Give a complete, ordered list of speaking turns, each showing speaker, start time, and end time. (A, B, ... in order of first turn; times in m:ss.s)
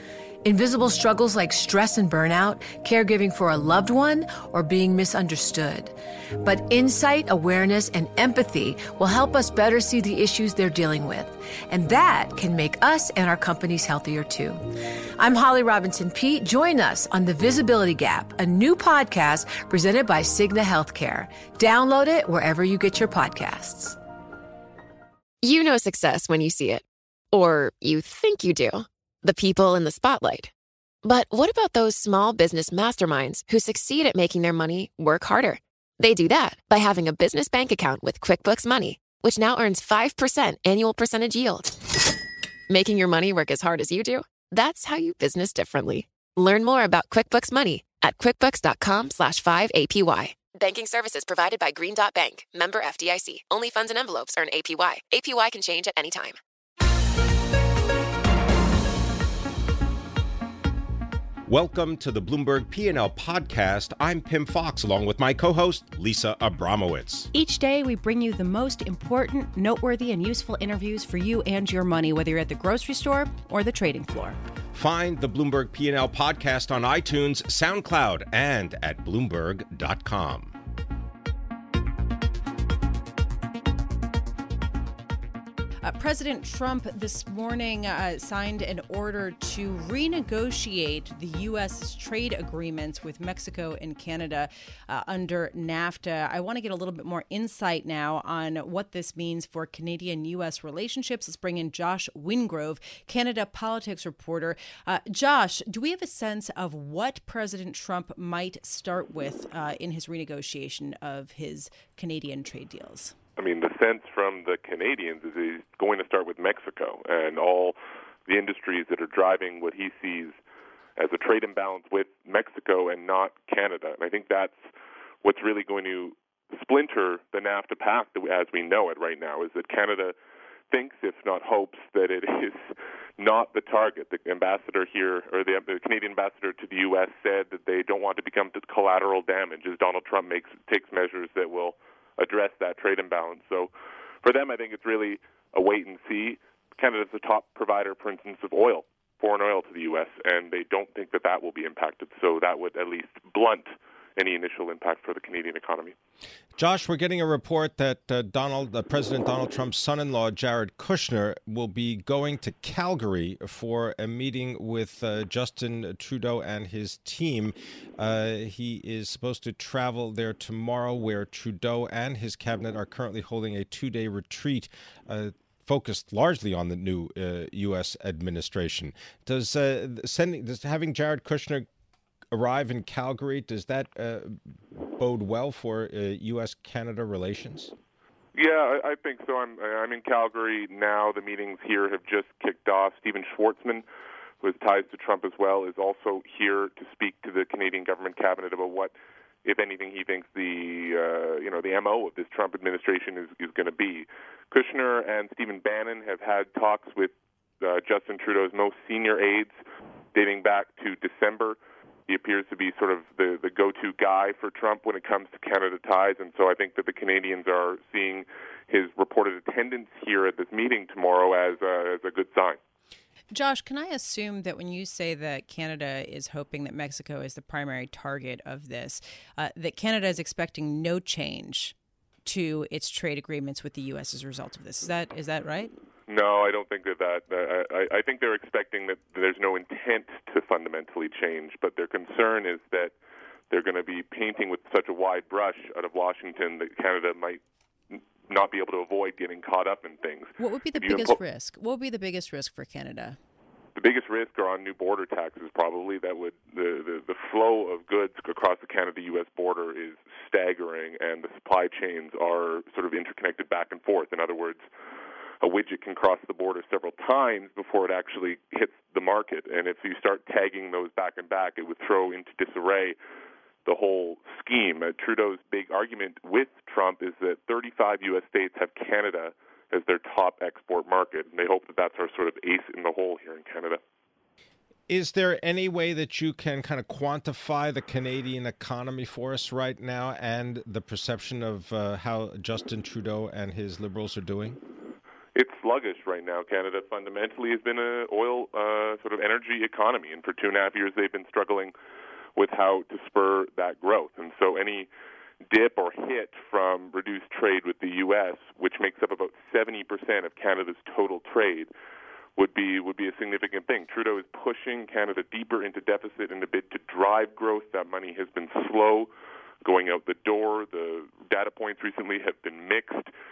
0:00.4-0:14.6 A
0:15.2-0:24.0 A
0:25.4-0:30.5 B
0:31.0-0:41.8 B
0:42.7-0:56.4 B
1:01.5-1:07.3 C
1:07.3-1:14.4 D
1:14.7-1:20.5 C
1:25.8-1:53.2 D
1:53.4-1:57.8 E
1:58.3-2:00.4 E
2:01.0-2:04.6 E
2:05.2-2:10.1 E
2:10.7-2:12.7 E
2:13.2-2:23.7 E
2:24.2-2:35.9 E
2:36.6-3:01.7 C
3:02.3-3:04.4 C
3:05.0-3:07.7 C
3:08.4-3:13.8 E
3:14.4-3:18.9 E
3:19.4-3:29.5 E
3:30.1-3:42.6 E
3:43.3-3:55.7 D
3:56.1-4:02.9 E
4:03.5-4:11.2 E
4:10.4-4:13.2 D
4:13.8-4:24.6 E
4:25.4-4:33.0 E
4:33.6-4:43.8 E
4:44.9-4:54.6 C
4:55.4-5:01.7 E
5:02.4-5:04.9 E
5:05.5-5:11.7 E
5:12.4-5:19.1 E
5:19.6-5:23.1 E